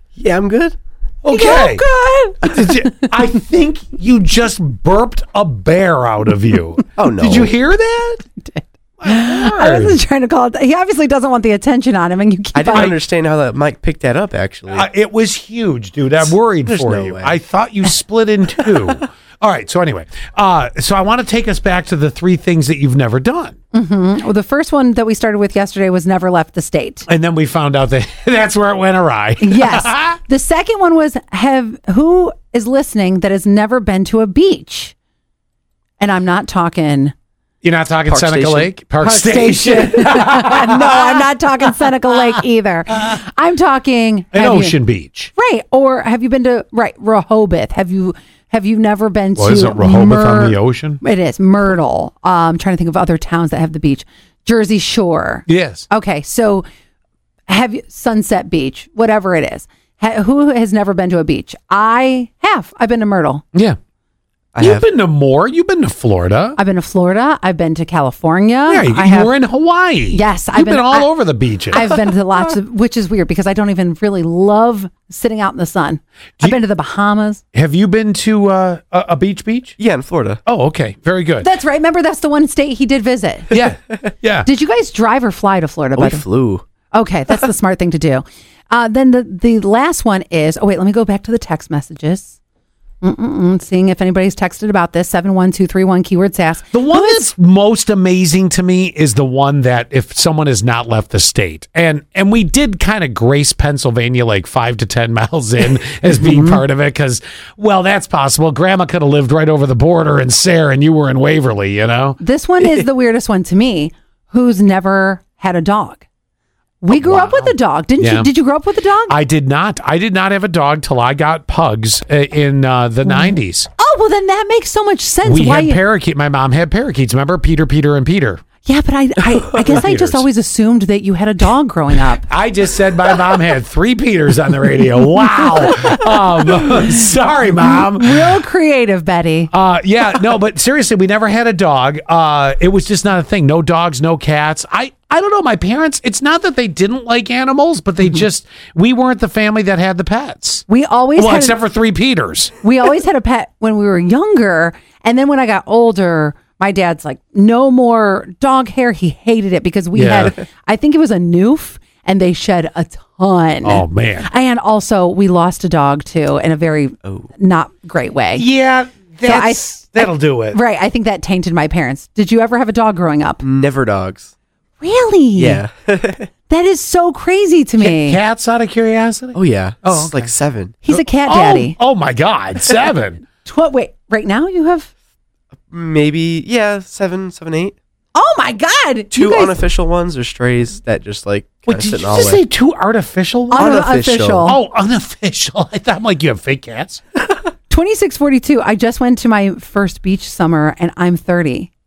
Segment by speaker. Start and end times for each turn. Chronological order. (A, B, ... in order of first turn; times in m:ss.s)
0:00.2-0:00.8 A
0:01.2-0:01.8 B
0:01.3-0:02.9 C
0:02.4-0:08.2 B
0:07.0-0:07.5 A
0:08.4-0:12.9 C
0:09.0-0:10.0 B
0:12.5-0:14.9 A
0:14.7-0:23.6 B
0:16.6-0:17.4 A
0:23.7-0:27.0 C
0:27.1-0:30.2 B
0:29.4-0:34.9 C
0:36.0-0:37.1 C
0:37.6-0:41.1 B
0:38.1-0:38.7 A
0:39.0-0:44.8 C
0:44.3-0:45.3 B
0:45.3-0:56.6 C
0:49.4-0:51.0 B
0:55.5-0:55.8 B
0:57.5-1:03.4 C
1:04.5-1:04.8 A
1:04.6-1:06.6 B
1:06.6-1:09.3 C
1:08.7-1:11.8 B
1:10.1-1:11.1 C
1:11.7-1:17.4 C
1:17.5-1:19.8 B
1:19.8-1:20.4 A
1:20.4-1:21.5 B
1:21.4-1:23.6 C
1:23.5-1:24.5 B
1:24.4-1:26.2 C
1:26.0-1:26.6 A
1:26.9-1:32.3 C
1:33.0-1:37.3 C
1:36.7-1:52.2 B
1:52.2-1:56.0 C
1:56.8-1:59.1 C
1:56.9-1:58.3 B
1:59.1-2:03.7 B
2:03.0-2:05.8 C
2:05.2-2:08.4 B
2:08.6-2:12.2 C
2:09.5-2:10.2 B
2:12.3-2:18.4 B
2:15.7-2:16.8 C
2:17.5-2:19.5 C
2:19.5-2:30.6 B
2:30.7-2:31.6 C
2:31.2-2:32.5 B
2:32.6-2:48.4 C
2:39.9-2:40.3 B
2:43.6-2:44.3 B
2:48.3-2:50.6 B
2:49.2-2:53.4 C
2:53.4-2:54.3 A
2:54.8-2:55.6 C
2:55.4-2:56.3 A
2:56.5-2:58.2 C
2:57.8-3:00.3 B
2:59.3-3:00.8 A
3:00.8-3:01.8 C
3:00.9-3:03.2 B
3:03.4-3:04.9 C
3:05.7-3:07.8 A
3:08.1-3:09.6 C
3:09.1-3:12.4 A
3:11.6-3:13.7 B
3:13.5-3:14.6 C
3:13.6-3:14.5 A
3:14.4-3:17.0 B
3:17.7-3:21.7 C